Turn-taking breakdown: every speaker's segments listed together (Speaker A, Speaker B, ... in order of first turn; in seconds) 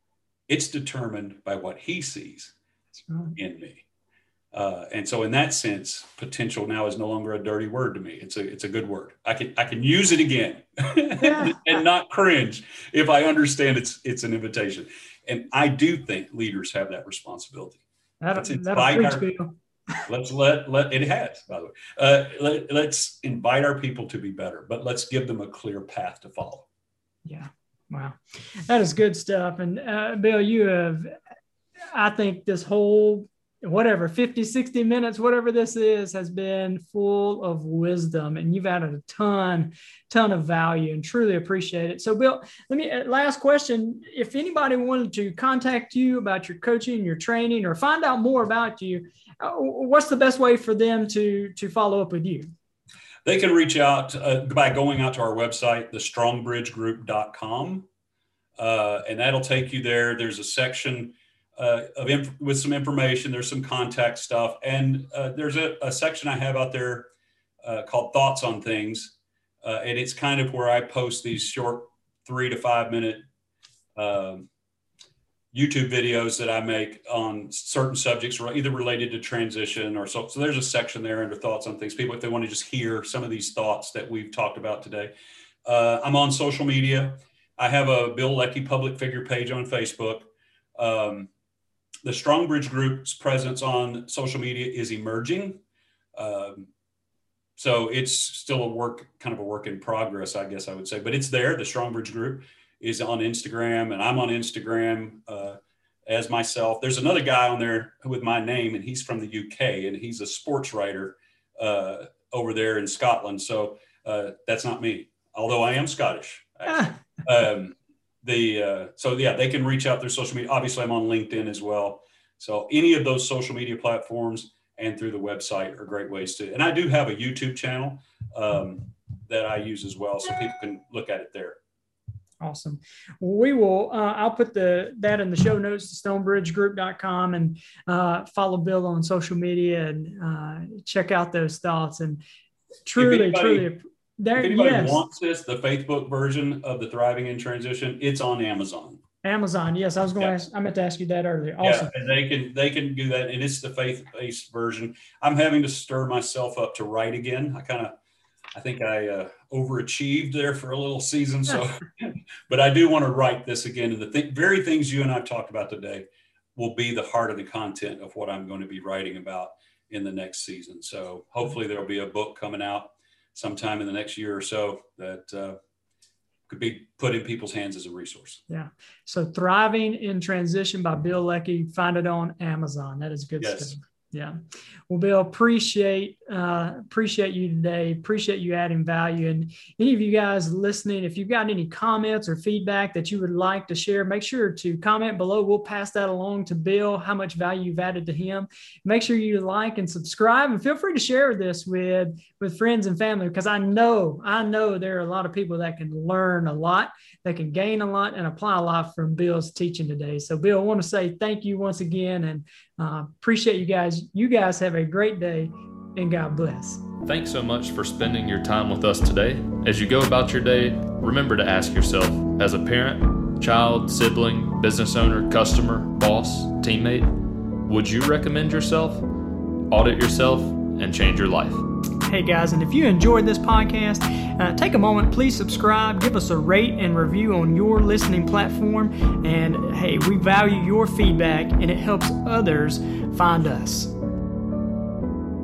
Speaker A: 0.5-2.5, 3.4-3.8, 4.5-17.8, 18.4-19.3, 20.1-26.7, 53.2-57.9, 58.6-67.1, 67.6-73.2, 74.0-74.5, 75.5-85.1, 85.7-91.3, 92.0-95.6, 96.2-96.7, 97.6-131.6, 143.0-143.7, 144.4-149.0, 151.6-157.9, 158.6-175.6, 176.5-178.4, 183.4-183.8
Speaker B: 3.0-3.4, 11.2-11.6, 18.2-19.6, 27.3-31.1, 31.9-52.5, 116.7-117.0, 132.4-142.2, 142.9-145.0, 149.2-151.9, 178.5-184.4, 184.9-216.8, 232.1-243.9
Speaker C: 217.1-227.1, 227.7-229.1, 229.7-231.7